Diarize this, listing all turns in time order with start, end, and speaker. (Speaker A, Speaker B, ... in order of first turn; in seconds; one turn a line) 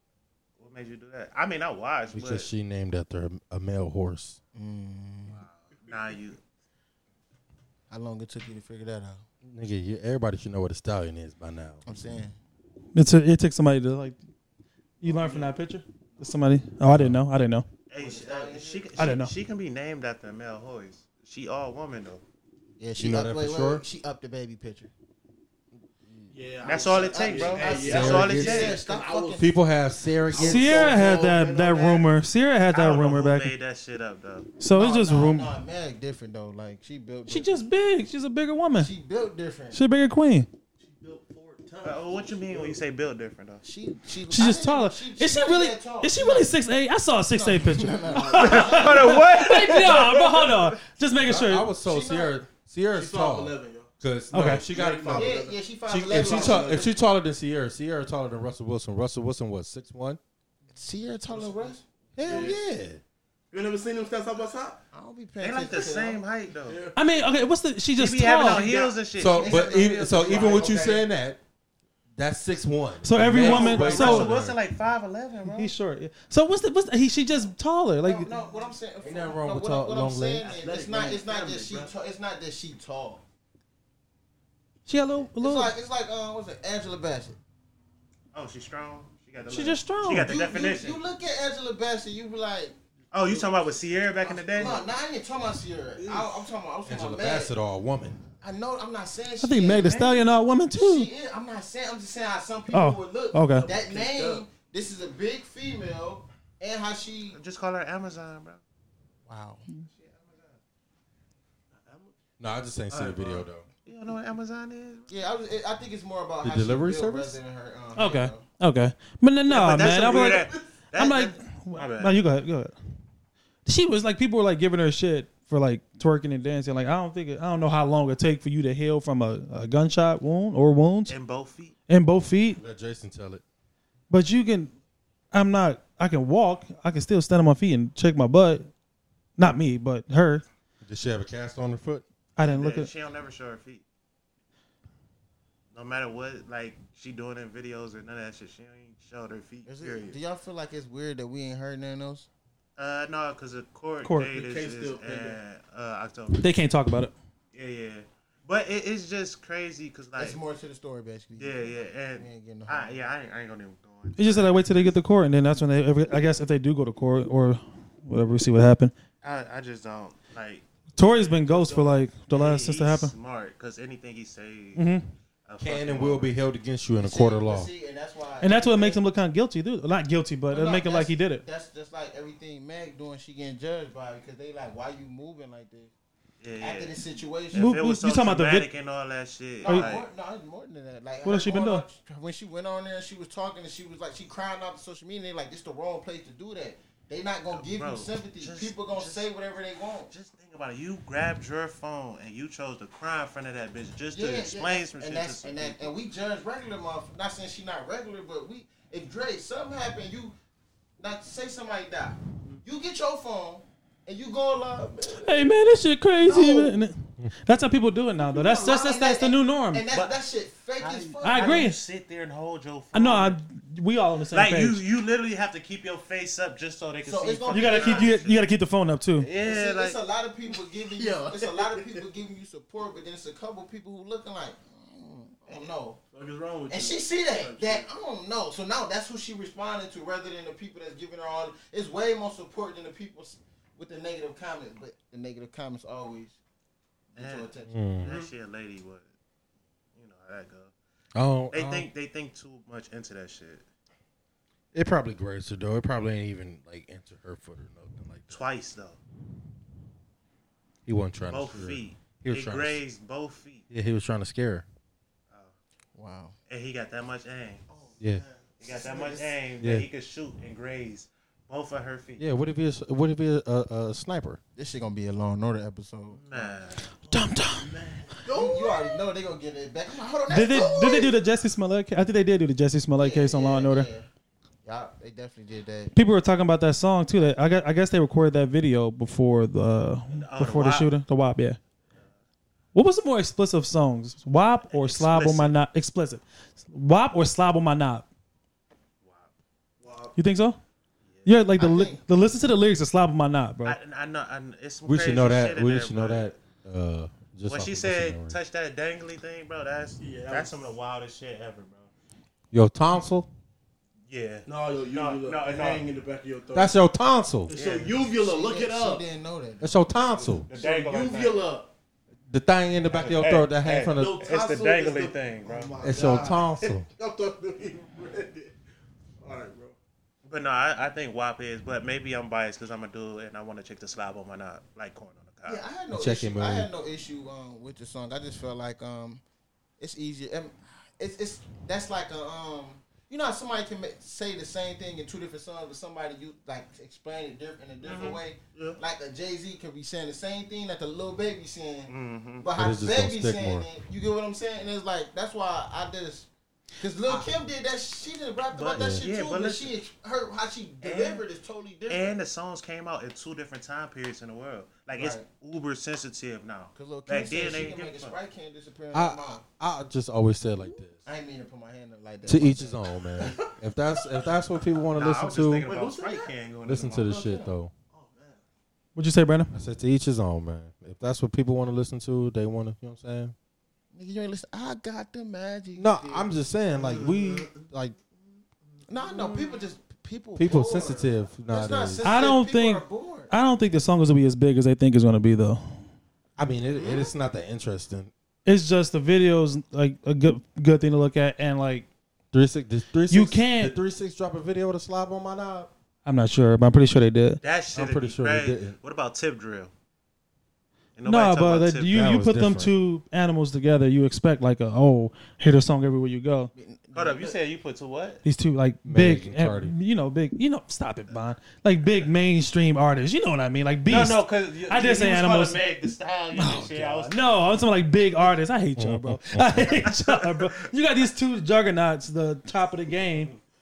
Speaker A: 0.6-2.5
Speaker B: 2.1-4.4
Speaker C: 4.5-5.4
Speaker A: 5.3-6.4
Speaker C: 7.9-9.2
Speaker B: 9.4-11.8
Speaker C: 11.8-12.4
Speaker D: 12.9-14.2
Speaker D: 15.0-17.6
Speaker C: 15.0-15.5
Speaker B: 16.9-17.2
Speaker A: 17.9-22.2
Speaker C: 18.0-19.1
Speaker D: 19.0-19.3
Speaker C: 22.8-24.9
Speaker B: 23.0-23.8
Speaker E: 26.3-29.4
Speaker A: 26.6-28.8
Speaker C: 26.9-29.4
Speaker B: 27.7-28.7
Speaker B: 29.4-31.0
Speaker E: 30.3-31.4
Speaker C: 30.3-32.0
Speaker D: 30.4-33.5
Speaker A: 32.7-34.5
Speaker D: 34.6-35.5
Speaker C: 34.7-37.6
Speaker D: 37.3-38.9
Speaker C: 38.7-39.8
Speaker D: 39.7-40.5
Speaker E: 40.8-42.8
Speaker A: 41.8-43.6
Speaker C: 43.6-46.5
Speaker D: 44.3-51.7
Speaker C: 47.3-49.3
Speaker A: 48.4-50.7
Speaker B: 51.2-60.2
Speaker C: 51.8-52.4
Speaker E: 52.9-56.9
Speaker D: 54.3-54.6
Speaker C: 55.1-56.9
Speaker C: 60.7-62.7
Speaker E: 61.3-62.6
Speaker B: 62.2-63.0
Speaker E: 63.5-64.8
Speaker C: 64.9-66.2
Speaker A: 65.4-66.8
Speaker E: 66.6-67.0
Speaker D: 67.0-68.7
Speaker A: 68.0-70.9
Speaker C: 68.6-71.1
Speaker B: 69.1-71.4
Speaker B: 72.2-74.6
Speaker D: 73.0-74.3
Speaker A: 73.4-75.7
Speaker D: 75.4-78.3
Speaker C: 78.0-83.2
Speaker B: 79.0-80.5
Speaker E: 80.4-81.9
Speaker D: 84.9-85.7
Speaker C: 85.3-87.4
Speaker A: 88.3-91.0
Speaker D: 89.4-90.3
Speaker C: 90.2-92.7
Speaker A: 93.1-94.8
Speaker E: 93.1-94.9
Speaker C: 94.5-97.5
Speaker E: 96.0-96.4
Speaker B: 96.8-98.2
Speaker C: 98.4-107.4
Speaker D: 99.4-101.1
Speaker D: 102.7-103.7
Speaker E: 103.5-104.4
Speaker A: 107.3-108.6
Speaker C: 109.2-109.6
Speaker A: 109.9-110.6
Speaker E: 111.7-112.1
Speaker B: 112.4-113.6
Speaker E: 112.9-113.5
Speaker A: 113.8-115.1
Speaker C: 115.1-118.5
Speaker B: 116.4-117.4
Speaker D: 118.0-122.7
Speaker A: 119.5-122.2
Speaker E: 119.9-120.7
Speaker D: 123.7-131.2
Speaker A: 131.1-131.8
Speaker D: 131.9-132.6
Speaker B: 132.6-133.4
Speaker D: 134.1-134.7
Speaker D: 135.3-138.7
Speaker D: 139.4-140.4
Speaker B: 140.8-142.0
Speaker D: 142.3-142.9
Speaker A: 142.4-143.8
Speaker A: 145.7-150.2
Speaker C: 149.6-152.3
Speaker A: 152.8-156.5
Speaker D: 154.0-154.3
Speaker E: 154.3-155.4
Speaker D: 156.4-157.1
Speaker A: 157.5-160.4
Speaker C: 160.2-162.9
Speaker A: 161.3-164.9
Speaker D: 164.2-168.9
Speaker A: 169.2-174.9
Speaker D: 170.9-173.1
Speaker D: 174.8-175.0
Speaker A: 175.4-176.3
Speaker B: 175.6-177.7
Speaker C: 177.0-179.0
Speaker D: 178.4-181.4
Speaker C: 180.5-185.9
Speaker A: 186.4-187.0
Speaker C: 186.6-187.8
Speaker A: 187.5-190.1
Speaker D: 187.5-188.7
Speaker C: 189.6-200.1
Speaker D: 189.6-189.9
Speaker D: 191.2-191.8
Speaker A: 197.5-199.3
Speaker A: 200.1-205.9
Speaker C: 204.1-210.3
Speaker C: 211.0-215.5
Speaker D: 215.1-219.8
Speaker C: 216.2-216.8
Speaker E: 218.2-218.6
Speaker C: 218.5-221.7
Speaker A: 219.9-220.2
Speaker A: 220.8-223.4
Speaker D: 221.2-221.8
Speaker D: 222.9-224.8
Speaker A: 224.3-228.4
Speaker C: 227.0-228.1
Speaker D: 227.5-229.3
Speaker A: 229.2-230.0
Speaker C: 229.4-236.0
Speaker E: 230.9-232.0
Speaker E: 236.1-237.9
Speaker C: 236.7-246.4
Speaker C: 247.1-248.2
Speaker A: 247.2-247.5
Speaker B: 247.7-248.1
Speaker A: 248.0-249.1
Speaker A: 249.9-250.7
Speaker B: 251.1-251.9
Speaker A: 251.5-253.6
Speaker B: 254.7-258.5
Speaker A: 258.3-259.0
Speaker B: 260.9-262.8
Speaker A: 261.3-263.6
Speaker B: 263.7-264.6
Speaker C: 265.9-266.3
Speaker A: 266.5-267.6
Speaker E: 267.7-269.2
Speaker A: 268.6-272.2
Speaker C: 268.6-269.4
Speaker B: 269.6-269.9
Speaker B: 272.2-274.4
Speaker C: 274.6-276.6
Speaker A: 276.2-276.9
Speaker D: 277.1-277.7
Speaker E: 277.5-279.0
Speaker C: 278.3-281.2
Speaker D: 280.3-283.9
Speaker C: 283.0-284.1
Speaker C: 284.6-285.9
Speaker D: 285.9-291.6
Speaker A: 290.1-290.9
Speaker D: 292.7-298.1
Speaker A: 294.7-295.5
Speaker A: 299.0-299.3
Speaker E: 299.8-300.2
Speaker D: 300.2-300.6
Speaker A: 301.1-301.4
Speaker D: 301.2-303.8
Speaker C: 301.6-302.0
Speaker A: 303.6-306.4
Speaker B: 304.9-308.4
Speaker A: 307.5-311.9
Speaker E: 310.0-310.7
Speaker B: 312.5-313.3
Speaker A: 314.1-315.8
Speaker E: 314.4-316.8
Speaker B: 316.5-317.5
Speaker E: 317.5-319.0
Speaker A: 317.5-318.0
Speaker C: 318.1-319.8
Speaker B: 319.6-320.5
Speaker E: 320.2-321.7
Speaker A: 320.5-321.5
Speaker B: 322.3-324.2
Speaker A: 322.9-325.8
Speaker E: 323.9-328.6
Speaker B: 325.8-326.9
Speaker E: 329.2-329.8
Speaker A: 330.2-335.6
Speaker C: 335.4-339.2
Speaker B: 335.9-336.7
Speaker C: 339.8-356.3
Speaker A: 347.8-348.2
Speaker A: 351.9-352.5
Speaker B: 352.6-353.7
Speaker C: 356.8-362.2
Speaker A: 358.5-359.7
Speaker B: 358.7-359.0
Speaker A: 360.8-361.2
Speaker A: 361.9-368.1
Speaker C: 364.9-365.2
Speaker C: 366.7-369.4
Speaker B: 368.9-371.0
Speaker E: 370.6-370.8
Speaker C: 371.0-373.4
Speaker B: 372.2-375.6
Speaker E: 373.2-373.4
Speaker A: 374.9-377.2
Speaker E: 375.6-376.3
Speaker B: 376.6-377.7
Speaker E: 376.9-378.4
Speaker D: 378.9-379.5
Speaker B: 379.5-383.3
Speaker C: 383.9-386.3
Speaker B: 385.8-387.5
Speaker E: 386.7-387.7
Speaker C: 387.7-387.9
Speaker E: 388.7-389.6
Speaker C: 388.9-393.3
Speaker B: 390.4-392.1
Speaker D: 392.0-395.6
Speaker B: 396.4-398.1
Speaker C: 396.7-397.1
Speaker D: 398.4-401.9
Speaker B: 402.3-405.7
Speaker D: 403.1-403.8
Speaker D: 406.1-407.4
Speaker A: 407.4-409.7
Speaker B: 407.7-408.8
Speaker A: 411.0-412.0
Speaker D: 411.0-416.5
Speaker B: 411.9-412.7
Speaker C: 416.5-417.3
Speaker A: 416.9-418.2
Speaker D: 418.2-425.6
Speaker B: 418.8-419.7
Speaker A: 423.9-427.2
Speaker D: 426.3-433.3
Speaker B: 428.8-429.7
Speaker A: 429.8-430.5